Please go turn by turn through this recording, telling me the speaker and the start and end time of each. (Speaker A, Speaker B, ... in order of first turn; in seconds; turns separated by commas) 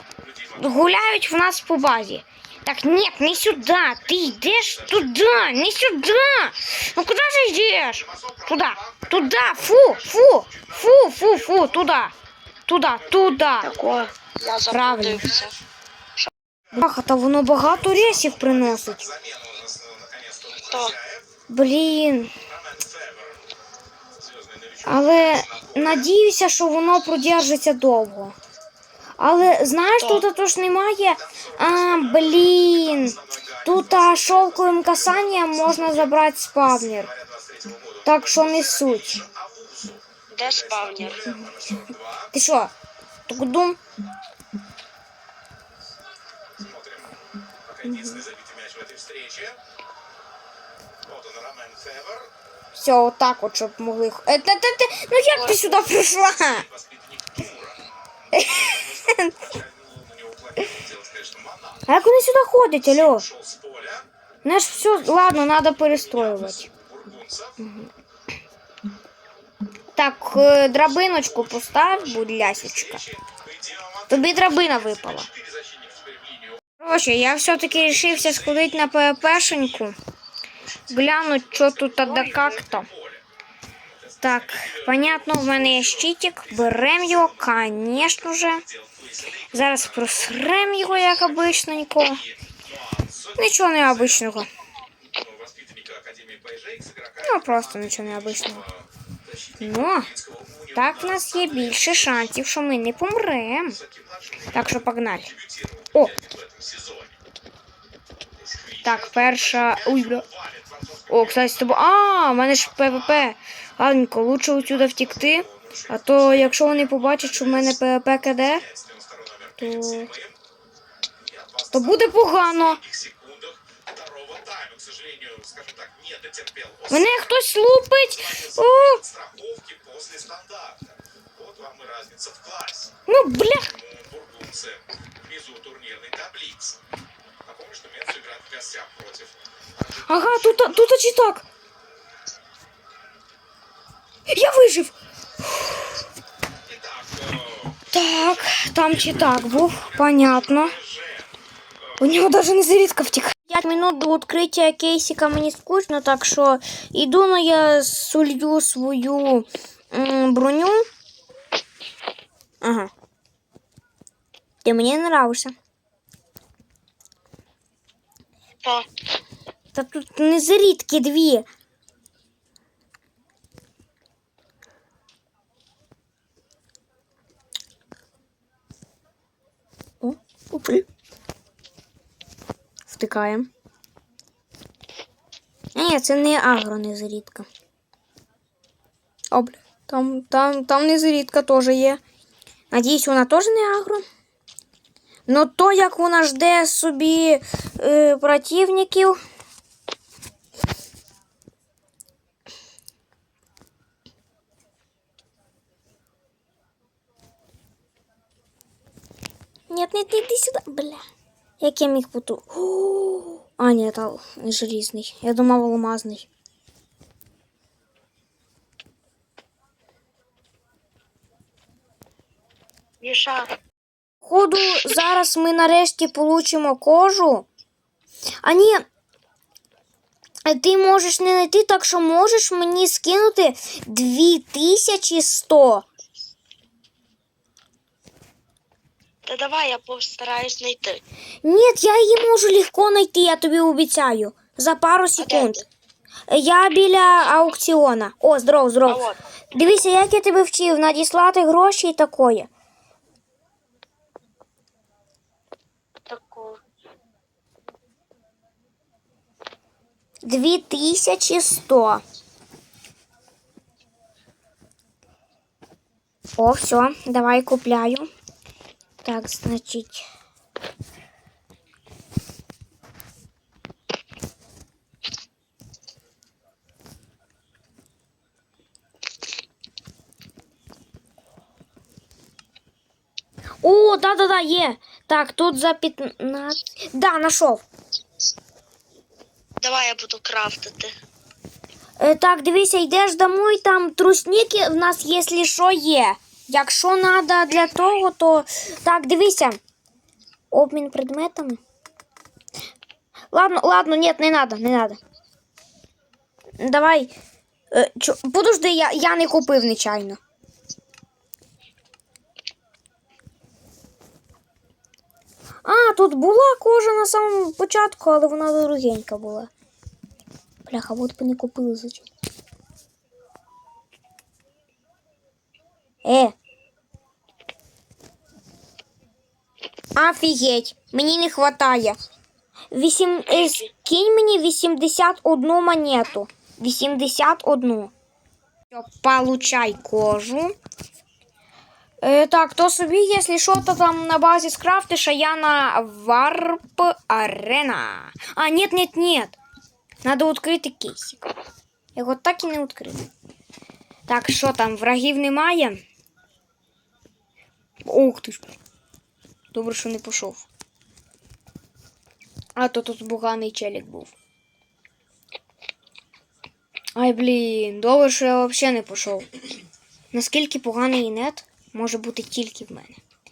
Speaker A: 0.2-0.9, Speaker B: 0.6-12.1, Speaker A: 3.8-5.3, Speaker A: 7.9-12.0, Speaker B: 12.7-13.7, Speaker A: 12.9-15.6, Speaker C: 13.6-15.5, Speaker B: 14.7-15.3, Speaker B: 16.8-19.0, Speaker A: 17.5-21.3, Speaker C: 20.7-20.9, Speaker B: 21.5-22.3, Speaker A: 22.5-23.6, Speaker A: 24.1-26.2, Speaker B: 24.9-28.4, Speaker B: 29.2-37.1, Speaker C: 30.0-30.2, Speaker A: 31.2-42.3, Speaker B: 38.0-39.2, Speaker C: 40.3-41.2, Speaker B: 42.3-42.7, Speaker B: 43.3-43.8, Speaker A: 46.5-49.6, Speaker B: 47.9-48.2, Speaker A: 51.0-52.3, Speaker B: 52.7-56.7, Speaker C: 55.3-55.9, Speaker A: 56.3-57.9, Speaker B: 58.3-59.5, Speaker A: 58.5-62.0, Speaker B: 61.9-63.3, Speaker A: 62.8-64.1, Speaker B: 64.4-66.7, Speaker A: 64.9-65.2, Speaker A: 65.8-67.6, Speaker B: 67.6-67.9, Speaker B: 70.0-73.0, Speaker A: 71.1-76.6, Speaker B: 74.1-75.3, Speaker B: 76.8-80.0, Speaker A: 77.5-79.8, Speaker A: 80.6-83.2, Speaker B: 80.9-82.9, Speaker C: 82.0-82.6, Speaker A: 83.9-94.5, Speaker B: 84.2-88.6, Speaker B: 89.5-92.2, Speaker B: 93.4-94.5, Speaker A: 95.0-102.4, Speaker B: 97.2-98.6, Speaker B: 99.6-100.1, Speaker B: 100.7-103.8, Speaker A: 103.7-107.2, Speaker B: 104.5-105.3, Speaker A: 108.3-111.8, Speaker B: 108.8-110.2, Speaker B: 111.1-118.7, Speaker A: 112.7-113.3, Speaker A: 114.6-120.4, Speaker B: 119.6-120.1, Speaker A: 121.2-127.4, Speaker B: 121.7-122.8, Speaker B: 126.9-129.0, Speaker A: 128.0-136.8, Speaker B: 133.1-133.7, Speaker A: 137.4-139.4, Speaker A: 140.0-141.0, Speaker B: 140.1-141.5, Speaker B: 144.3-144.9, Speaker A: 146.6-151.3, Speaker B: 147.9-150.8, Speaker B: 152.0-160.9, Speaker B: 162.6-162.9, Speaker B: 164.6-165.5, Speaker B: 169.7-171.5, Speaker B: 180.0-180.9, Speaker B: 182.9-183.5, Speaker B: 185.8-187.5, Speaker B: 189.3-192.0, Speaker B: 192.7-194.0, Speaker B: 195.3-199.2, Speaker B: 209.7-211.1, Speaker B: 211.6-216.3, Speaker C: 223.0-223.5, Speaker B: 224.2-227.5, Speaker B: 228.4-228.8, Speaker B: 230.4-235.9, Speaker C: 239.3-241.0, Speaker B: 241.4-245.6, Speaker C: 245.2-245.7, Speaker B: 246.3-252.5, Speaker C: 248.9-249.2, Speaker C: 256.1-256.6, Speaker B: 260.2-262.0, Speaker B: 266.4-268.1, Speaker B: 269.0-270.1, Speaker B: 283.6-287.6, Speaker C: 289.6-290.9, Speaker B: 292.0-299.6, Speaker B: 300.5-301.6, Speaker B: 303.3-305.0, Speaker B: 306.6-307.1, Speaker B: 307.7-310.2, Speaker B: 315.6-319.5, Speaker B: 320.7-322.1, Speaker B: 326.1-326.3, Speaker B: 329.9-332.0, Speaker B: 332.7-337.9, Speaker C: 333.3-333.7, Speaker B: 338.7-340.6, Speaker B: 342.0-349.4, Speaker B: 350.0-351.2, Speaker B: 351.9-353.1, Speaker B: 354.1-355.8, Speaker B: 357.9-358.5, Speaker B: 359.5-360.4, Speaker B: 362.6-364.1, Speaker B: 367.0-369.3, Speaker B: 370.1-373.0